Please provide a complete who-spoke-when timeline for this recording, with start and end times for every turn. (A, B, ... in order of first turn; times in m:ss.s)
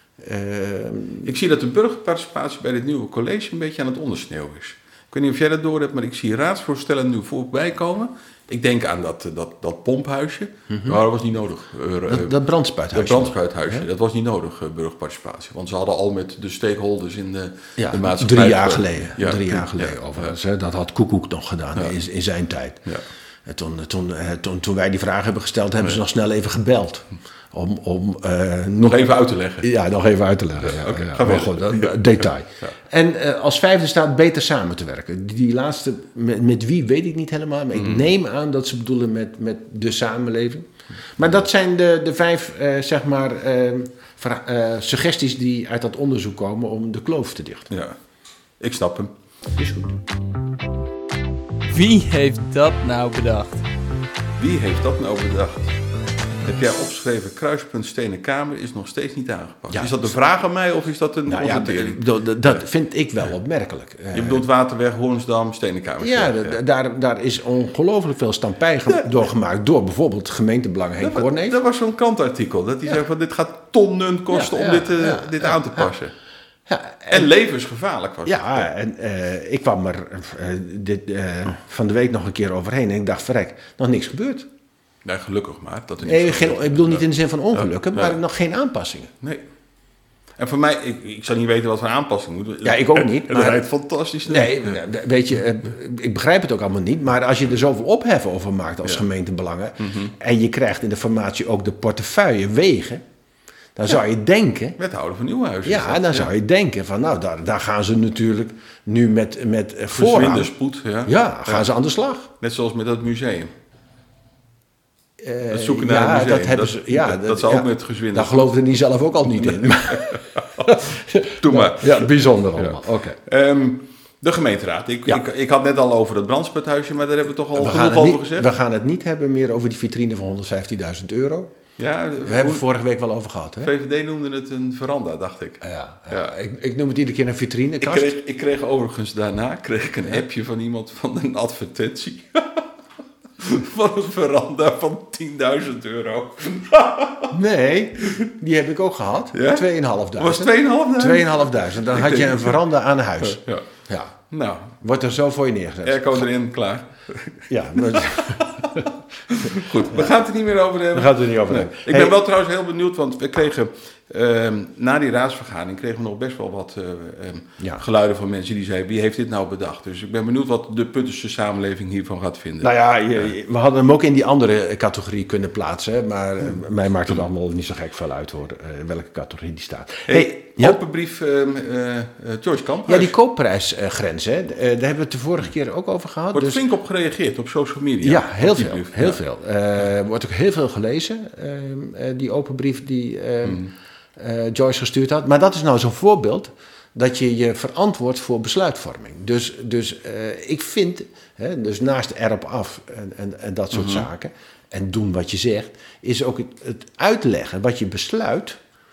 0:00.2-0:01.3 A
0:01.2-0:12.3 B
0:10.7-0:11.0 A
0:12.1-0:13.8 A
0:12.9-0:20.3 B
0:17.8-0:22.8 A
0:23.4-0:47.7 A
0:28.8-0:29.7 B
0:30.6-0:32.8 B
0:37.7-0:38.0 B
0:47.7-0:48.0 B
0:48.6-0:49.1 B
0:49.6-0:50.0 A
0:51.7-0:53.6 C
0:54.4-0:55.7 B
0:56.4-1:02.6 B
0:59.7-1:00.1 A
1:01.3-1:04.4 A
1:04.1-1:06.6 B
1:06.0-1:11.6 A
1:11.0-1:16.1 B
1:14.3-1:15.9 A
1:16.7-1:17.3 A
1:17.1-1:18.7 B
1:18.2-1:24.5 A
1:25.0-1:28.2 B
1:26.0-1:29.1 A
1:30.4-1:34.8 B
1:32.6-1:33.6 A
1:34.2-1:43.0 A
1:39.8-1:40.1 B
1:43.8-1:44.8 A
1:44.8-1:46.3 B
1:45.6-1:50.5 A
1:49.9-1:51.6 B
1:51.0-1:52.3 A
1:52.4-1:53.5 B
1:55.2-2:03.2 A
1:55.5-1:58.6 B
1:59.3-2:08.5 B
2:07.5-2:11.5 A
2:11.8-2:12.6 B
2:12.2-2:13.7 A
2:13.6-2:16.3 B
2:15.6-2:18.1 A
2:17.8-2:22.7 B
2:23.4-2:27.3 B
2:27.3-2:34.1 A
2:29.3-2:29.6 B
2:30.2-2:32.6 B
2:33.2-2:33.6 B
2:34.3-2:34.8 B
2:34.8-2:36.3 A
2:35.8-2:52.7 B
2:37.5-2:38.8 A
2:40.9-2:42.2 A
2:52.6-3:00.8 A
3:00.1-3:03.1 B
3:02.9-3:06.6 A
3:06.3-3:09.2 B
3:08.0-3:28.6 A
3:13.4-3:13.7 B
3:23.7-3:24.1 B